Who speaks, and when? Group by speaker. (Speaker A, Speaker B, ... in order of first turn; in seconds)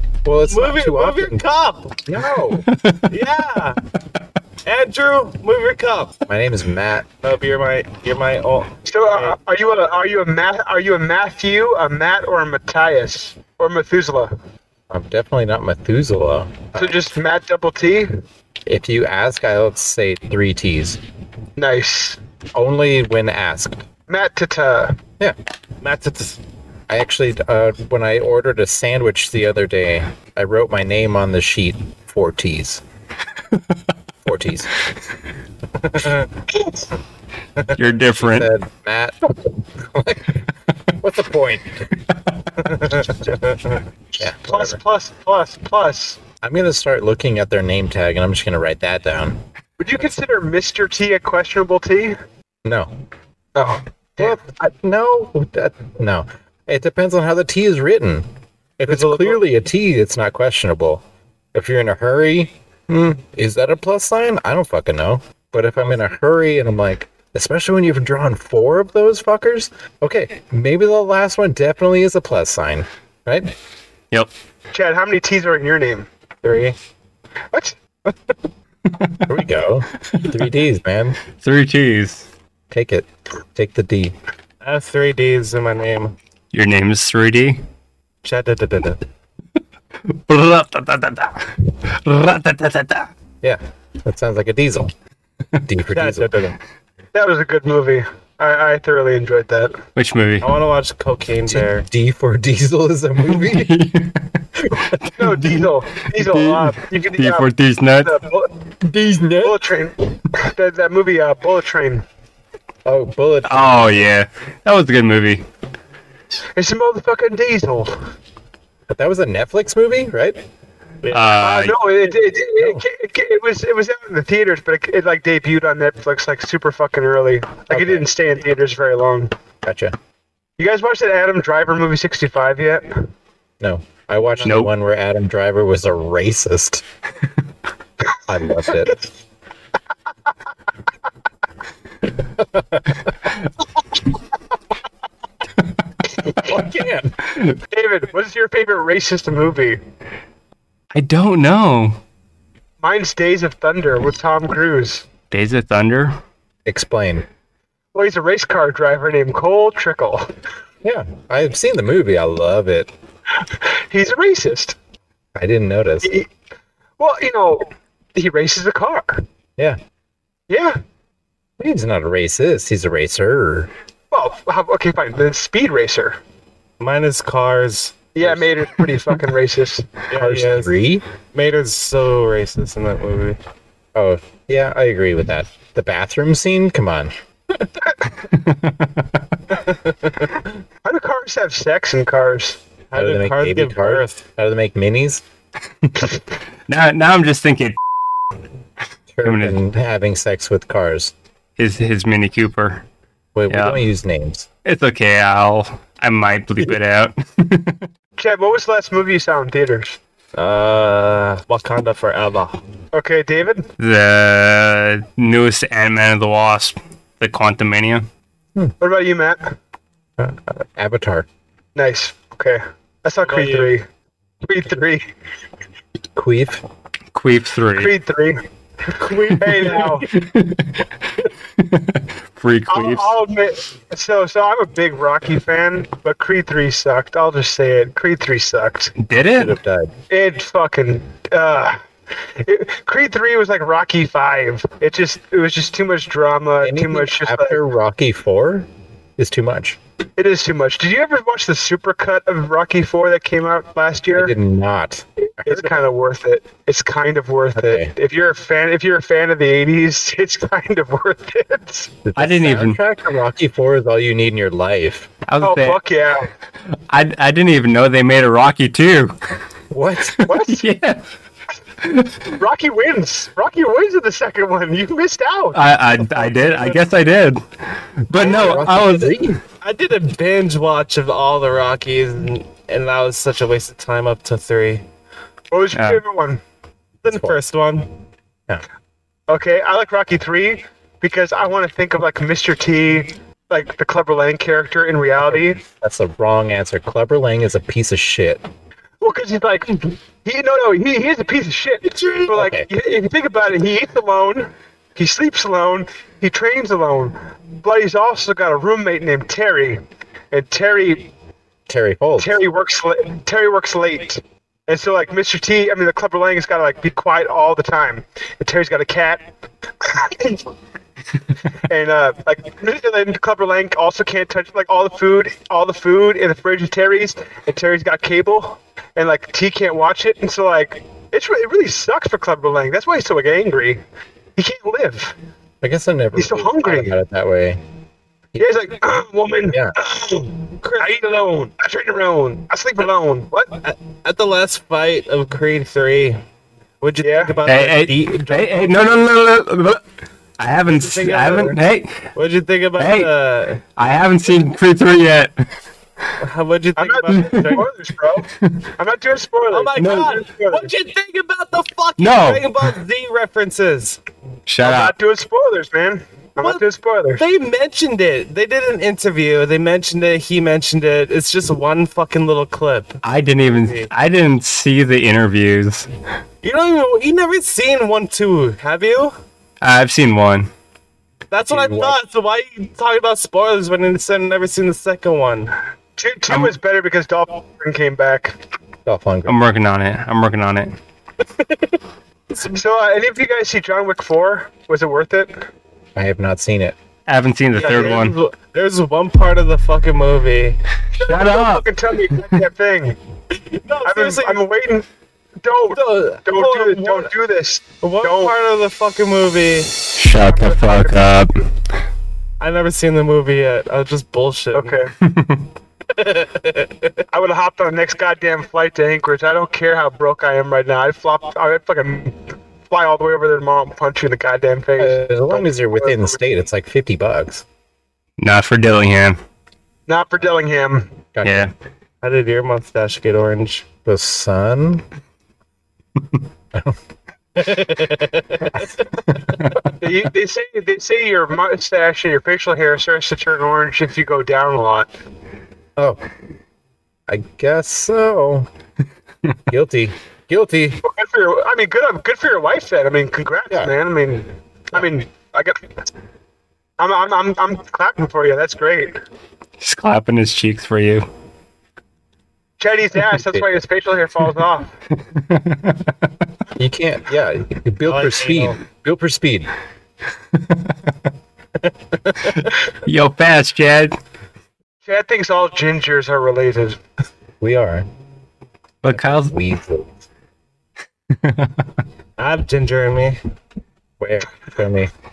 Speaker A: 0.2-1.4, 2.0-2.6, 6.3-7.0, 14.9-16.9, 18.7-21.0, 22.5-23.8, 26.9-32.8, 34.2-34.7, 38.2-40.4, 41.0-41.9, 44.2-44.8, 46.4-49.4, 52.6-52.9, 54.2-58.3, 58.8-73.5, 79.3-81.2, 82.7-84.1, 93.4-94.9, 95.6-96.3, 101.5-103.8, 108.8-109.6, 112.8-114.1, 118.9-120.4, 127.7-128.1, 129.6-129.9, 133.6-136.8, 138.3-139.0, 142.4-142.8, 146.3-147.2, 156.7-157.2, 160.8-162.9, 165.3-166.1, 171.6-173.7, 180.1-181.0, 183.9-187.1, 192.9-195.2, 199.1-201.1, 203.3-204.5, 220.2-221.2, 226.1-226.6, 239.3-239.9, 246.6-249.8, 254.1-255.8, 257.5-257.9, 262.0-265.1, 269.7-270.3, 278.2-279.4, 287.0-287.4, 295.2-298.4, 302.3-302.7, 311.7-312.4, 335.6-337.6, 339.5-339.7, 381.5-382.0, 388.9-389.4, 395.9-396.8, 424.8-427.4, 431.1-431.5, 433.8-434.8, 438.5-439.2, 445.8-446.0, 447.1-448.5, 449.5-450.8, 463.3-463.5, 466.6-469.5, 477.4-477.9, 478.9-479.9, 484.0-484.9
Speaker B: 0.5-2.0, 3.1-3.8, 4.7-6.2, 7.2-9.3, 25.8-26.4, 35.8-36.3, 37.6-37.8, 42.6-43.8, 58.8-59.4, 76.4-76.8, 84.6-86.2, 88.2-89.0, 95.9-96.6, 100.4-101.9, 121.0-121.4, 176.8-178.3, 180.1-180.7, 181.3-183.4, 189.6-190.5, 192.9-194.2, 210.3-212.6, 223.2-223.8, 228.9-230.2, 276.1-276.8, 279.6-284.8, 287.0-287.9, 301.9-302.3, 340.6-340.9, 343.6-346.2, 346.8-348.9, 350.7-351.6, 352.1-353.6, 356.2-357.7, 359.5-364.0, 366.4-366.6, 367.2-373.9, 376.4-379.1, 381.3-385.5, 391.2-391.8, 392.3-392.6, 397.5-400.6, 403.3-404.4, 405.7-407.1, 407.8-409.7, 412.4-414.8, 415.9-417.0, 432.0-433.6, 437.4-438.8, 467.9-468.6, 471.6-472.5, 482.2-483.2
Speaker C: 2.7-3.1, 37.8-38.5, 79.0-79.2, 81.3-82.2, 86.5-87.6, 90.0-93.1, 100.0-100.5, 103.3-108.2, 113.5-115.5, 121.1-121.8, 134.4-134.7, 150.9-152.0, 155.3-156.2, 188.3-189.1, 196.7-197.8, 199.2-199.6, 201.6-202.8, 203.5-203.8, 204.6-207.9, 213.8-218.1, 227.1-227.9, 230.2-230.8, 231.6-233.1, 239.0-239.6, 262.1-262.8, 265.2-265.8, 266.9-269.2, 270.2-271.1, 271.8-272.3, 275.5-277.4, 278.1-279.4, 285.7-286.0, 347.4-349.8, 350.4-352.1, 352.8-353.1, 353.8-355.4, 357.3-357.6, 359.8-360.2, 362.0-362.7, 364.5-364.9, 373.0-375.9, 379.6-380.5, 389.2-390.8, 397.1-398.1, 401.0-402.2, 409.9-411.4, 415.0-415.4, 428.2-429.2, 431.2-431.5, 459.6-461.1, 465.1-465.9, 472.3-474.0, 478.8-479.3, 481.2-481.6
Speaker D: 8.8-14.3, 16.7-18.1, 21.6-22.2, 24.1-25.0, 44.4-46.2, 49.8-52.2, 53.5-54.4, 74.7-76.1, 97.1-99.8, 105.1-107.5, 108.0-108.6, 109.4-112.0, 116.5-117.9, 121.4-129.3, 130.6-133.1, 147.7-149.8, 152.8-155.0, 157.9-160.3, 163.6-164.8, 167.0-169.2, 170.5-170.8, 174.1-176.2, 178.1-179.8, 190.8-192.6, 208.2-210.0, 212.9-213.7, 218.8-219.5, 221.7-223.8, 224.4-225.1, 227.8-228.4, 229.3-230.1, 232.7-238.9, 240.1-241.8, 242.4-247.6, 250.2-254.3, 255.4-261.9, 265.4-266.3, 270.2-270.6, 272.3-275.6, 278.2-278.6, 285.5-286.4, 289.3-295.6, 299.0-309.8, 310.3-311.1, 312.2-319.3, 319.8-320.4, 321.6-333.8, 334.4-335.1, 336.1-336.9, 338.4-343.6, 347.0-347.3, 356.8-360.7, 364.6-367.2, 386.0-388.4, 392.5-395.5, 397.6-398.0, 400.9-403.0, 403.8-404.9, 405.4-408.3, 410.3-411.1, 414.5-414.9, 417.1-426.2, 429.9-430.9, 439.8-444.9, 450.8-455.7, 456.8-459.0, 462.6-464.7, 474.8-476.8